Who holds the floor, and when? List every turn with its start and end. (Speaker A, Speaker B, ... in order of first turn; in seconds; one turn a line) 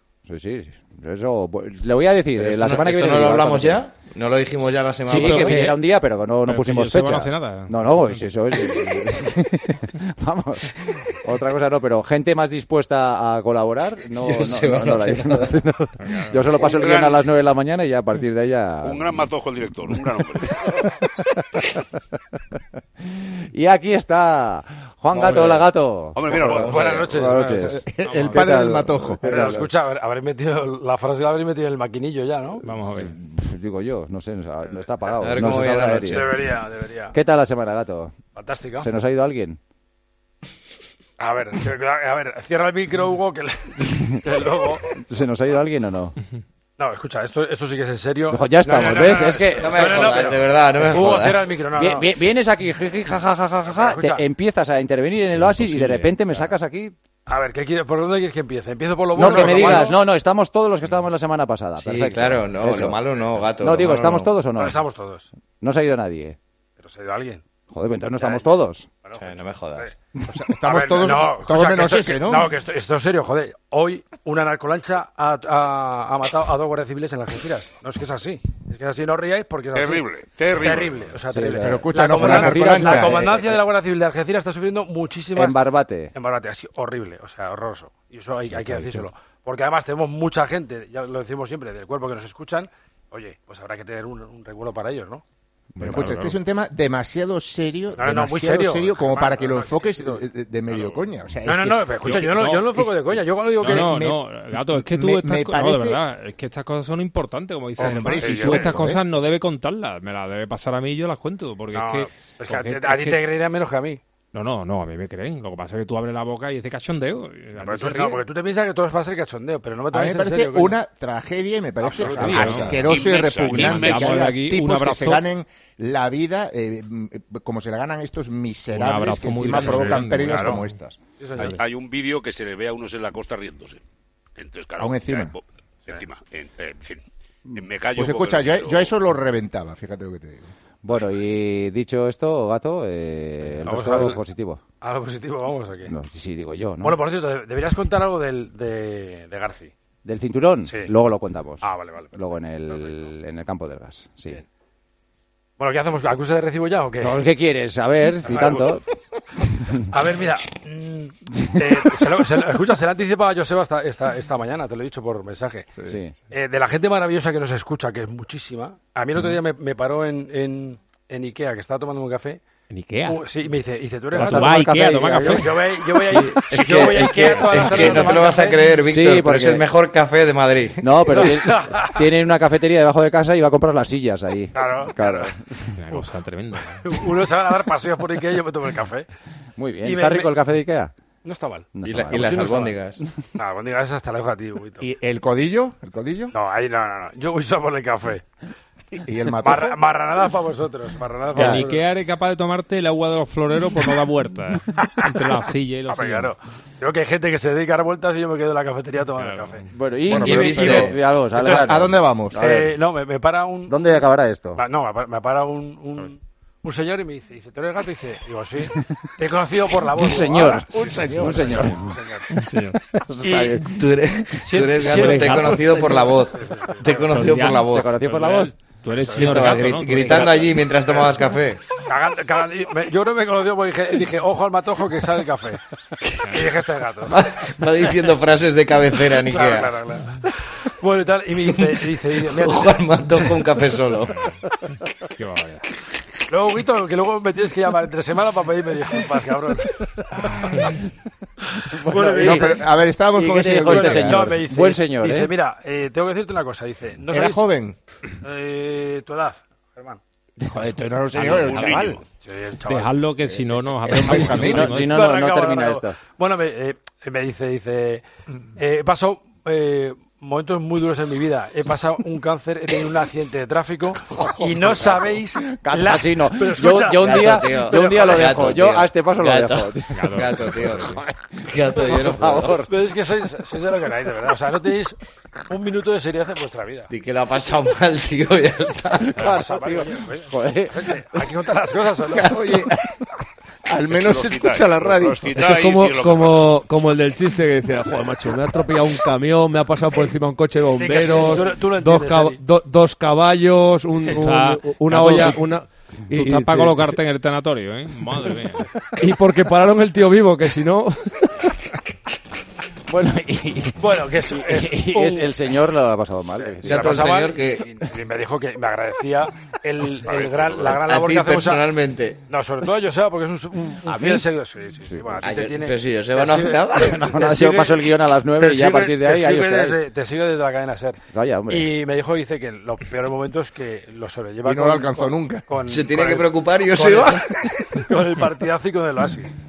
Speaker A: 0.3-3.9
Speaker B: 2.4-5.7
Speaker A: 5.1-19.3
Speaker C: 5.1-8.2
Speaker B: 14.1-15.6
Speaker C: 16.0-16.4
Speaker D: 16.6-17.2
Speaker D: 18.8-20.8
Speaker A: 23.0-26.6
Speaker B: 25.1-25.7
Speaker D: 26.1-26.7
Speaker B: 26.3-27.3
Speaker E: 26.4-27.8
Speaker A: 27.1-29.7
Speaker F: 27.8-29.6
Speaker C: 28.0-28.4
Speaker E: 29.2-32.6
Speaker C: 32.6-33.1
Speaker A: 32.7-36.4
Speaker B: 35.1-36.4
Speaker E: 36.0-37.2
Speaker A: 37.1-38.1
Speaker E: 38.4-38.9
Speaker A: 38.8-39.6
Speaker E: 41.2-45.0
Speaker A: 43.9-44.1
Speaker A: 45.0-46.2
Speaker E: 46.8-52.2
Speaker A: 48.3-50.2
Speaker B: 49.6-51.5
Speaker A: 50.9-57.0
Speaker E: 53.7-54.2
Speaker C: 55.3-56.5
Speaker E: 57.3-60.0
Speaker A: 59.1-63.0
Speaker B: 59.4-59.8
Speaker B: 61.8-64.3
Speaker A: 63.6-64.8
Speaker E: 64.5-65.3
Speaker A: 65.6-66.4
Speaker E: 66.8-67.4
Speaker A: 67.7-68.9
Speaker E: 68.2-68.5
Speaker E: 69.0-69.9
Speaker B: 69.2-69.9
Speaker F: 70.3-72.5
Speaker E: 70.6-85.6
Speaker D: 79.7-81.2
Speaker A: 81.3-83.6
Speaker F: 81.6-83.4
Speaker A: 85.3-86.1
Speaker E: 86.1-95.2
Speaker A: 88.5-89.1
Speaker A: 95.8-96.1
Speaker F: 95.8-106.0
Speaker C: 95.8-96.3
Speaker E: 98.0-100.2
Speaker D: 100.7-101.1
Speaker E: 101.5-103.9
Speaker C: 102.1-102.7
Speaker C: 103.6-113.2
Speaker F: 107.8-109.0
Speaker E: 107.8-108.8
Speaker E: 111.7-114.0
Speaker C: 114.3-118.2
Speaker E: 117.6-120.8
Speaker F: 119.9-131.0
Speaker E: 121.8-122.8
Speaker A: 122.1-122.7
Speaker C: 122.2-122.8
Speaker D: 122.7-124.3
Speaker C: 123.4-125.2
Speaker C: 128.7-130.6
Speaker E: 130.2-130.5
Speaker E: 131.2-131.6
Speaker D: 131.4-133.8
Speaker D: 134.4-137.0
Speaker F: 134.8-135.3
Speaker D: 137.6-138.9
Speaker F: 138.0-140.5
Speaker A: 140.8-144.6
Speaker E: 143.6-144.2
Speaker E: 144.8-145.9
Speaker A: 145.9-147.0
Speaker E: 146.8-149.7
Speaker A: 150.1-154.4
Speaker E: 150.7-150.9
Speaker E: 151.6-153.1
Speaker E: 155.6-157.2
Speaker A: 157.0-158.8
Speaker E: 158.3-158.8
Speaker E: 159.9-165.8
Speaker A: 165.8-166.1
Speaker E: 166.3-172.4
Speaker C: 172.7-173.2
Speaker E: 173.1-174.6
Speaker A: 174.1-176.7
Speaker C: 174.2-175.5
Speaker E: 175.2-178.6
Speaker B: 176.1-181.0
Speaker A: 177.4-178.1
Speaker A: 178.8-179.7
Speaker A: 180.8-185.8
Speaker E: 181.1-182.1
Speaker E: 184.5-185.3
Speaker C: 185.8-186.8
Speaker E: 186.8-189.1
Speaker A: 189.6-190.9
Speaker E: 189.8-190.3
Speaker E: 191.2-192.5
Speaker A: 191.8-193.1
Speaker B: 191.8-193.0
Speaker E: 193.3-194.8
Speaker F: 194.8-196.3
Speaker E: 196.3-198.2
Speaker F: 198.9-199.8
Speaker E: 199.4-201.8
Speaker A: 201.3-201.7
Speaker C: 201.3-206.3
Speaker E: 205.9-209.7
Speaker C: 209.2-209.6
Speaker A: 209.7-212.7
Speaker F: 210.1-212.4
Speaker B: 210.2-211.0
Speaker E: 211.4-211.8
Speaker E: 212.3-213.8
Speaker A: 213.7-214.6
Speaker E: 214.6-222.3
Speaker A: 219.9-222.0
Speaker F: 220.7-221.7
Speaker C: 222.3-222.8
Speaker A: 222.8-223.8
Speaker E: 223.2-223.6
Speaker B: 223.6-227.9
Speaker E: 224.4-227.1
Speaker C: 227.1-230.5
Speaker A: 227.7-228.5
Speaker B: 229.1-231.6
Speaker E: 231.8-235.6
Speaker E: 236.3-237.2
Speaker B: 237.1-239.8
Speaker E: 239.2-243.2
Speaker B: 241.5-244.2
Speaker C: 245.2-245.7
Speaker E: 246.3-249.9
Speaker C: 250.5-250.7
Speaker A: 251.7-255.3
Speaker E: 251.8-252.7
Speaker F: 252.2-254.4
Speaker E: 253.4-257.4
Speaker F: 257.1-257.8
Speaker E: 258.2-260.0
Speaker F: 260.4-262.0
Speaker D: 261.1-262.0
Speaker E: 262.2-262.9
Speaker C: 262.7-264.9
Speaker F: 263.8-264.7
Speaker A: 263.9-266.0
Speaker E: 264.7-268.0
Speaker E: 268.6-278.4
Speaker A: 274.2-282.7
Speaker B: 276.9-282.6
Speaker C: 279.9-280.8
Speaker E: 282.7-286.9
Speaker B: 286.9-289.2
Speaker A: 289.1-291.2
Speaker E: 289.2-292.3
Speaker F: 292.1-292.9
Speaker F: 293.7-295.5
Speaker D: 293.9-296.6
Speaker G: 295.4-306.9
Speaker E: 300.8-302.4
Speaker C: 304.2-305.4
Speaker C: 306.1-308.7
Speaker G: 309.0-311.1
Speaker A: 312.9-317.1
Speaker E: 313.8-315.4
Speaker E: 316.4-321.8
Speaker B: 316.6-317.7
Speaker D: 320.1-320.7
Speaker B: 320.6-322.2
Speaker E: 322.3-339.3
Speaker A: 323.9-324.3
Speaker A: 324.8-325.3
Speaker B: 325.2-327.3
Speaker A: 326.8-329.8
Speaker A: 331.1-331.7
Speaker F: 334.4-335.5
Speaker B: 335.6-337.3